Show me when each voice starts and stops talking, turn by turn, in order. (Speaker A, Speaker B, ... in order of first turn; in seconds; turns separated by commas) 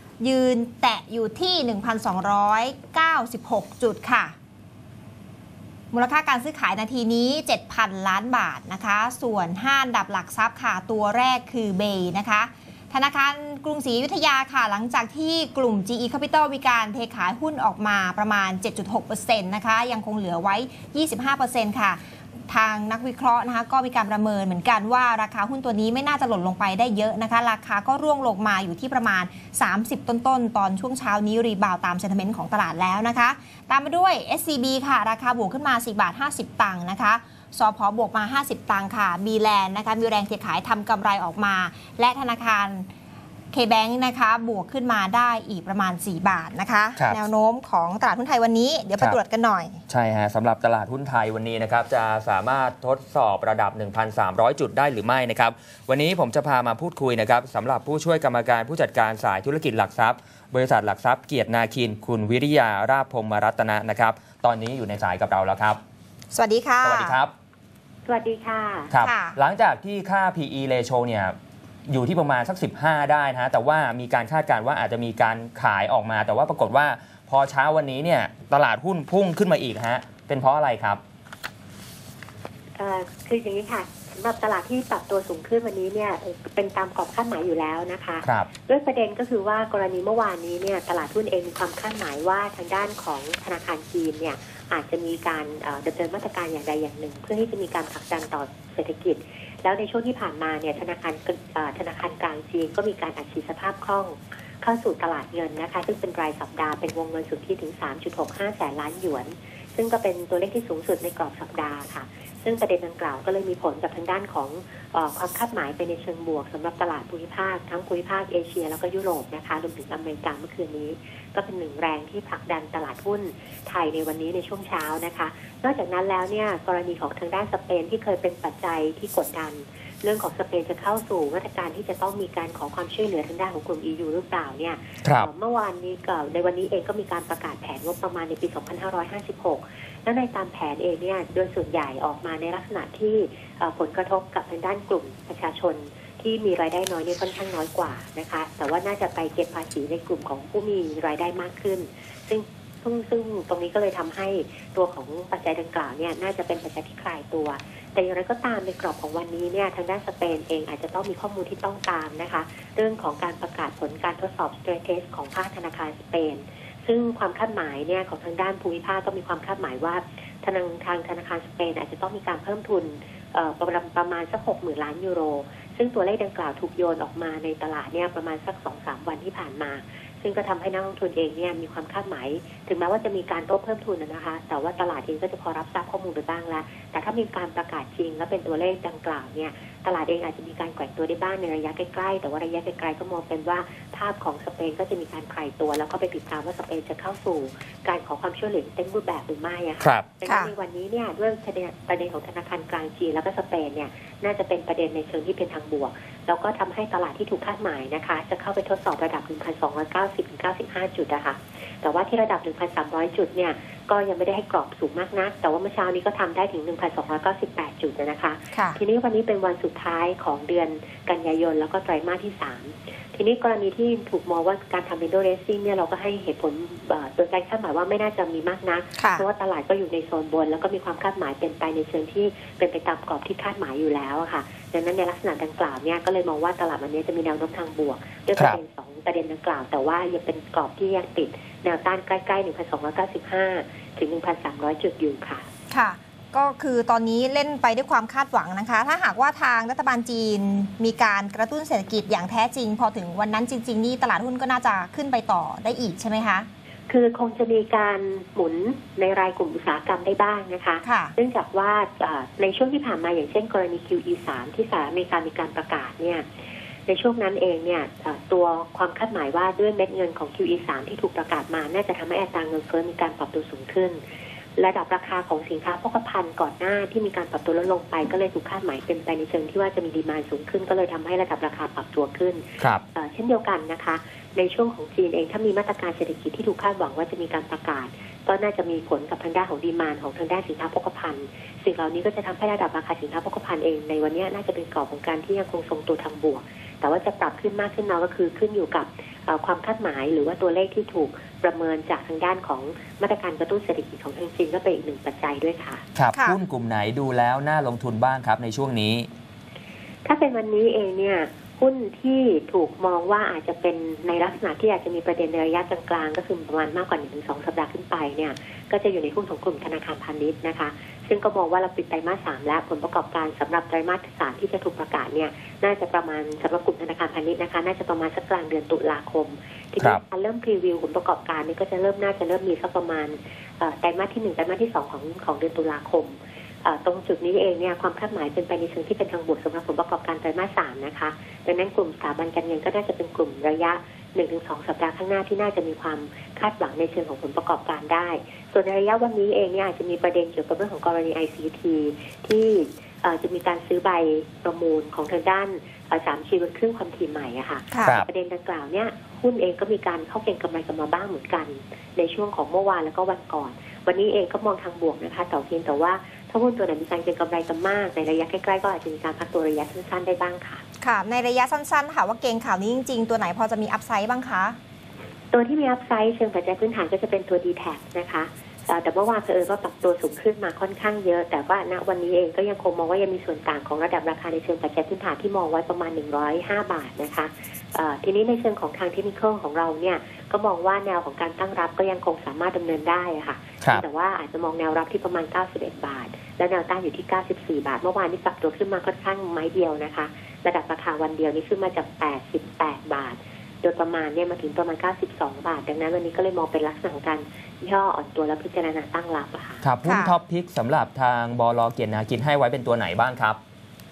Speaker A: 0.2-4.3, Speaker A: 5.9-42.9, Speaker A: 43.5-49.8, Speaker B: 47.0-47.2, Speaker B: 49.9-65.8, Speaker A: 66.3-67.2, Speaker B: 66.8-67.3, Speaker C: 68.0-68.9, Speaker B: 68.9-71.3, Speaker A: 69.0-69.4, Speaker B: 71.9-81.0, Speaker C: 82.8-245.4, Speaker B: 88.2-88.5, Speaker B: 135.0-135.3, Speaker B: 199.8-200.1, Speaker A: 200.3-200.5, Speaker A: 218.5-218.8, Speaker A: 229.0-229.2, Speaker A: 245.7-256.5, Speaker C: 256.9-266.2, Speaker A: 260.8-261.1, Speaker C: 266.9-274.0, Speaker C: 274.6-305.8, Speaker B: 305.9-309.1, Speaker C: 310.0-370.6, Speaker A: 357.7-358.0, Speaker A: 370.8-374.6, Speaker C: 375.3-409.6, Speaker B: 409.6-413.4, Speaker A: 409.8-410.1